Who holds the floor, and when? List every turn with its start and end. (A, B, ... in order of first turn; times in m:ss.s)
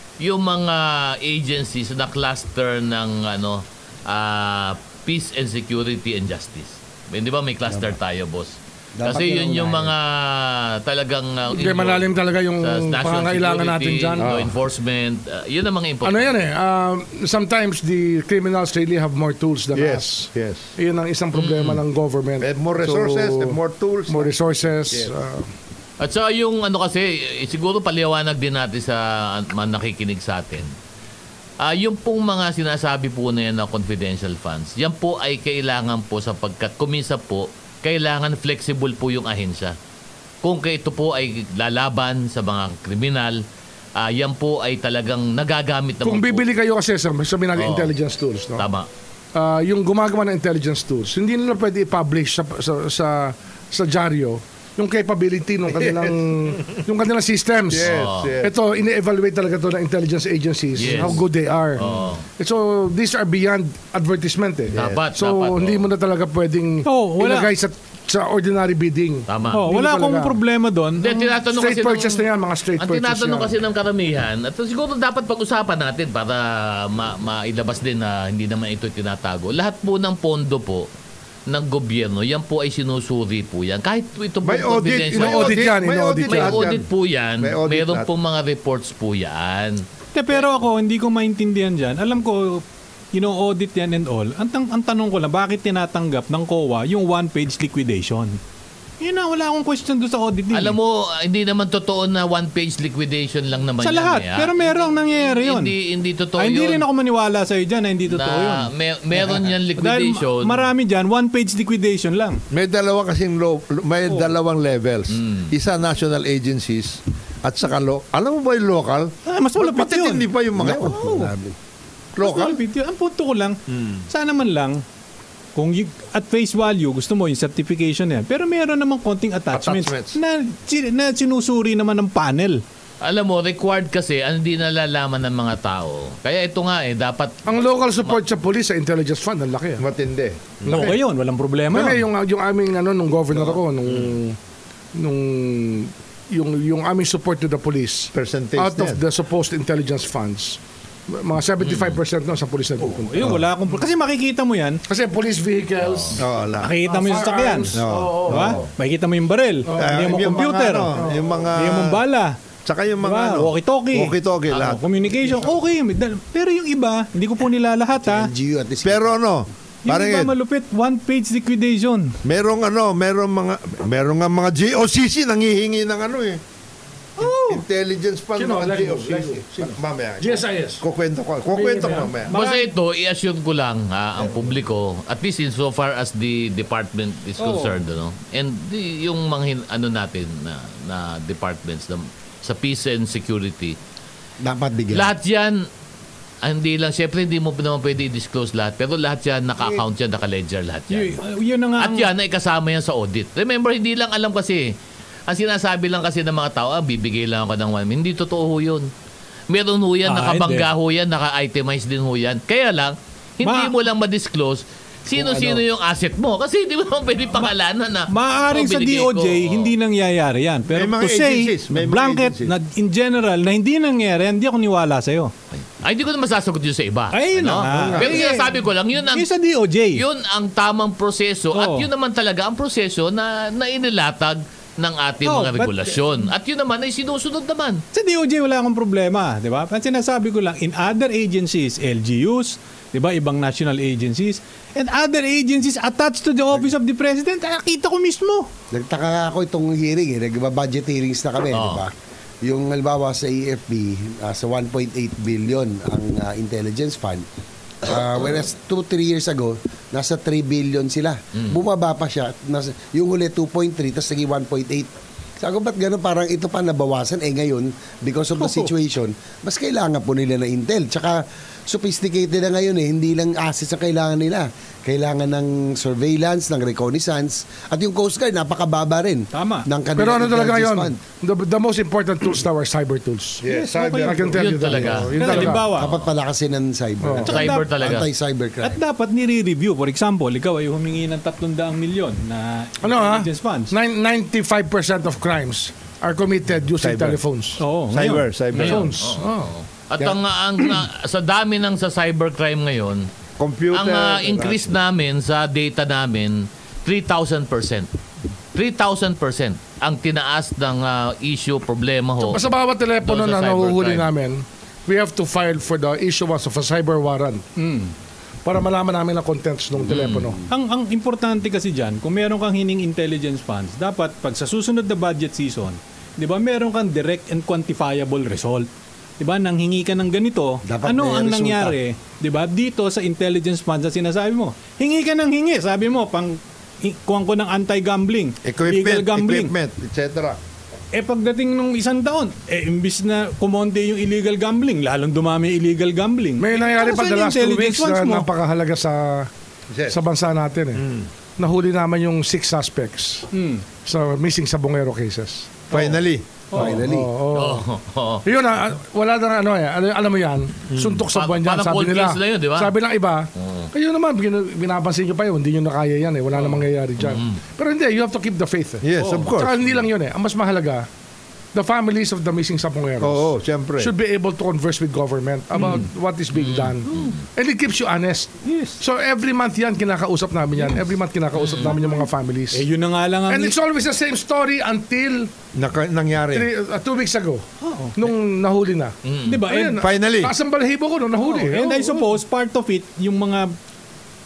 0:00.2-0:16.3 A
0:09.0-0:09.9 B
0:11.5-0:14.4 C
0:14.2-0:14.5 D
0:16.0-0:23.6 C
0:19.7-0:20.7 D
0:21.3-0:21.8 A
0:22.4-0:24.3 D
0:24.1-0:25.5 C
0:26.0-0:30.7 A
0:31.6-0:39.8 A
0:40.4-0:43.4 A
0:44.0-0:46.5 A
0:46.0-0:48.7 C
0:47.6-0:47.9 A
0:48.6-0:48.9 A
0:49.4-1:10.4 C
0:55.8-0:56.1 D
0:57.7-0:58.5 D
0:57.8-0:58.3 A
1:00.8-1:01.3 A
1:01.8-1:02.3 A
1:04.7-1:05.0 D
1:04.7-1:05.9 A
1:06.8-1:07.5 E
1:09.3-1:09.6 A
1:09.5-1:11.3 E
1:11.0-1:20.9 A
1:11.5-1:13.5 C
1:21.5-1:25.7 A
1:24.4-1:26.9 D
1:25.1-1:26.7 C
1:26.2-1:29.8 A
1:27.4-1:28.1 D
1:30.1-1:38.4 E
1:39.0-1:40.8 E
1:40.5-1:46.8 A
1:43.8-1:45.7 E
1:46.4-1:48.7 E
1:48.1-1:50.7 A
1:49.8-1:52.4 E
1:52.5-2:01.0 D
1:55.1-1:55.5 A
1:59.2-2:01.3 E
2:00.6-2:01.6 B
2:02.2-2:02.6 D
2:02.2-2:04.8 E
2:03.7-2:04.0 D
2:05.6-2:12.6 E
2:09.5-2:10.2 D
2:13.0-2:18.2 A
2:17.5-2:19.8 C
2:19.8-2:21.0 D
2:20.6-2:22.0 E
2:21.7-2:24.4 C
2:23.4-2:24.0 D
2:25.0-2:33.4 C
2:28.1-2:29.0 D
2:31.6-2:32.0 A
2:32.8-2:34.8 E
2:34.9-2:36.3 C
2:35.8-2:36.2 A
2:36.2-2:36.8 D
2:36.6-2:41.0 E
2:36.8-2:38.6 C
2:37.7-2:38.7 D
2:39.7-2:40.4 C
2:39.8-2:42.0 D
2:40.9-2:41.4 C
2:41.6-2:42.4 E
2:42.6-2:44.8 D
2:43.0-2:48.3 E
2:48.0-2:49.1 B
2:48.8-2:50.3 D
2:49.8-2:52.2 E
2:52.2-2:56.4 D
2:57.2-2:57.6 E
2:57.2-3:02.4 D
2:58.4-3:00.8 C
3:01.6-3:02.7 E
3:02.3-3:13.8 A
3:07.4-3:07.8 E
3:14.4-3:15.1 B
3:14.9-3:15.7 A
3:16.4-3:21.2 A
3:20.9-3:22.1 E
3:21.8-3:24.7 A
3:25.3-3:28.9 A
3:29.5-3:39.7 A
3:30.1-3:30.7 E
3:33.4-3:33.7 E
3:35.2-3:35.6 B
3:38.1-3:45.3 E
3:40.7-3:42.5 D
3:45.8-3:49.3 A
3:47.1-3:48.5 E
3:49.1-3:50.0 E
3:49.9-3:57.8 A
3:51.5-3:51.9 E
3:55.2-3:56.2 E
3:57.9-4:08.5 E
4:08.7-4:11.9 B
4:11.5-4:11.8 A
4:12.4-4:17.2 B
4:17.8-4:24.9 B
4:25.4-4:41.0 B
4:28.4-4:28.7 E
4:39.3-4:39.7 E
4:40.0-4:43.4 C
4:43.4-4:45.1 D
4:43.5-4:44.3 E
4:44.0-4:45.7 C
4:44.3-4:45.5 A
4:45.2-4:46.0 E
4:45.3-4:48.8 B
4:47.0-4:47.3 C
4:47.3-4:48.1 A
4:47.3-4:47.7 E
4:48.6-4:53.7 E
4:52.8-4:57.6 C
4:56.8-4:57.2 D
4:57.6-4:58.9 E
4:57.9-4:58.9 D
4:58.6-4:59.5 C
4:58.7-5:03.1 A
5:03.4-5:04.7 D
5:03.7-5:07.9 A
5:08.5-5:12.5 A
5:12.3-5:17.4 C
5:13.0-5:14.1 A
5:17.6-5:17.9 E
5:18.4-5:20.4 C
5:19.9-5:20.3 A
5:20.5-5:28.7 E
5:29.2-5:39.5 E
5:30.6-5:31.8 B
5:38.4-5:40.4 D
5:40.9-5:48.3 E
5:46.4-5:49.3 C
5:49.7-5:50.0 D
5:49.9-5:50.8 C
5:50.8-5:51.1 D
5:51.4-5:53.3 C
5:53.3-5:53.6 E
5:53.8-5:56.0 C
5:55.7-5:56.3 D
5:56.5-5:56.8 E
5:56.5-5:57.1 B
5:56.5-5:57.7 C
5:57.3-5:58.3 A
5:58.3-6:10.9 C
6:00.7-6:01.0 D
6:01.1-6:02.7 A
6:03.4-6:03.7 A
6:06.5-6:07.4 A
6:08.8-6:09.6 D
6:09.0-6:09.3 E
6:11.5-6:22.6 C
6:13.0-6:13.9 D
6:16.3-6:17.2 A
6:18.4-6:18.8 E
6:21.4-6:21.8 A
6:21.6-6:22.0 E
6:22.5-6:23.6 E
6:23.3-6:25.3 C
6:25.5-6:26.5 D
6:26.3-6:27.4 C
6:27.6-6:28.0 E
6:28.0-6:32.1 C
6:29.0-6:29.4 A
6:29.2-6:29.8 E
6:29.8-6:30.3 D
6:31.2-6:33.6 E